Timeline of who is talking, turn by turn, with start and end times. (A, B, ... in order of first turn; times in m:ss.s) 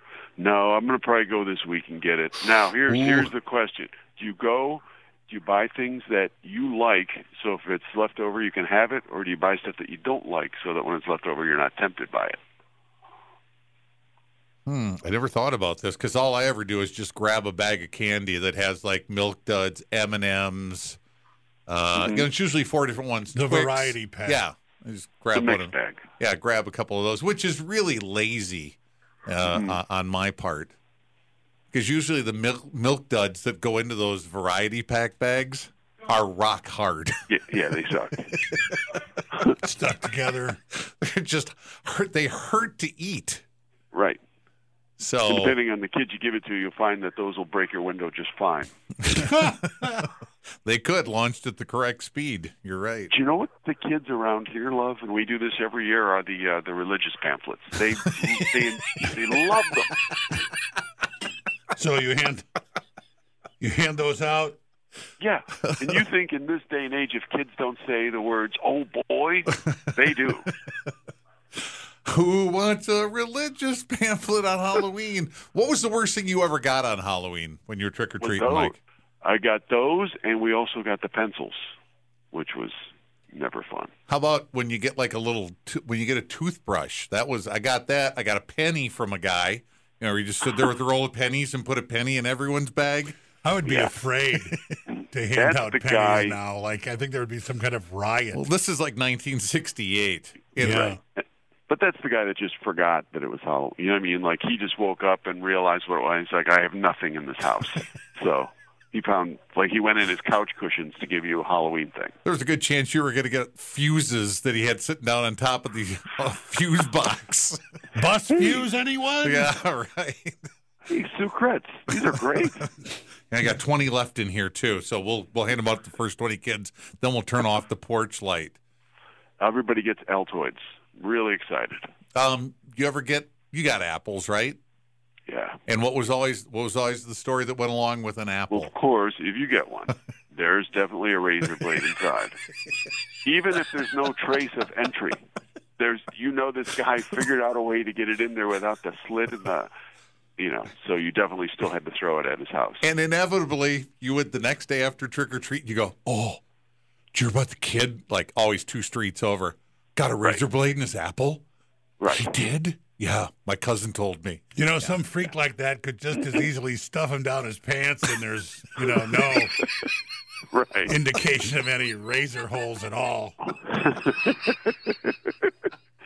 0:00.4-0:12.4 A
0:02.9-0:03.3 B
0:14.6-0:21.0 B
0:21.7-0:30.8 B
0:21.9-0:22.3 A
0:23.3-0:24.4 C
0:25.3-0:26.0 A
0:29.4-0:29.8 A
0:31.7-0:37.2 B
0:37.3-0:38.3 A
0:39.6-0:40.6 C
0:40.7-0:43.4 B
0:43.9-0:44.2 A
0:45.0-0:45.6 B
0:45.2-0:48.7 A
0:49.2-0:49.7 C
0:50.6-0:53.1 B
0:53.1-1:00.0 A
1:01.7-1:02.4 C
1:03.6-1:04.6 C
1:05.2-1:10.5 A
1:12.0-1:18.8 B
1:18.2-1:21.7 A
1:22.3-1:23.9 A
1:24.1-1:33.2 B
1:33.4-1:38.5 C
1:33.6-1:33.9 A
1:35.3-1:36.4 A
1:38.3-1:40.9 B
1:40.6-1:41.0 C
1:41.2-1:52.1 A
1:52.2-1:57.6 B
1:57.9-1:59.5 C
1:58.4-1:58.6 A
1:59.2-2:00.4 B
2:00.9-2:02.7 A
2:03.3-2:08.6 B
2:09.4-2:11.9 A
2:12.1-2:14.6 B
2:15.3-2:15.6 A
2:15.7-2:18.7 B
2:18.5-2:22.4 A
2:23.2-2:25.2 A
2:25.8-2:29.7 A
2:30.4-2:32.9 A
2:32.8-2:36.4 B
2:37.1-2:41.4 B
2:42.0-2:42.3 A
2:42.1-2:42.8 C
2:43.0-2:45.0 B
2:44.5-2:49.6 C
2:49.4-2:49.9 A
2:50.5-2:50.9 A
2:50.8-2:53.4 C
2:53.5-2:55.5 A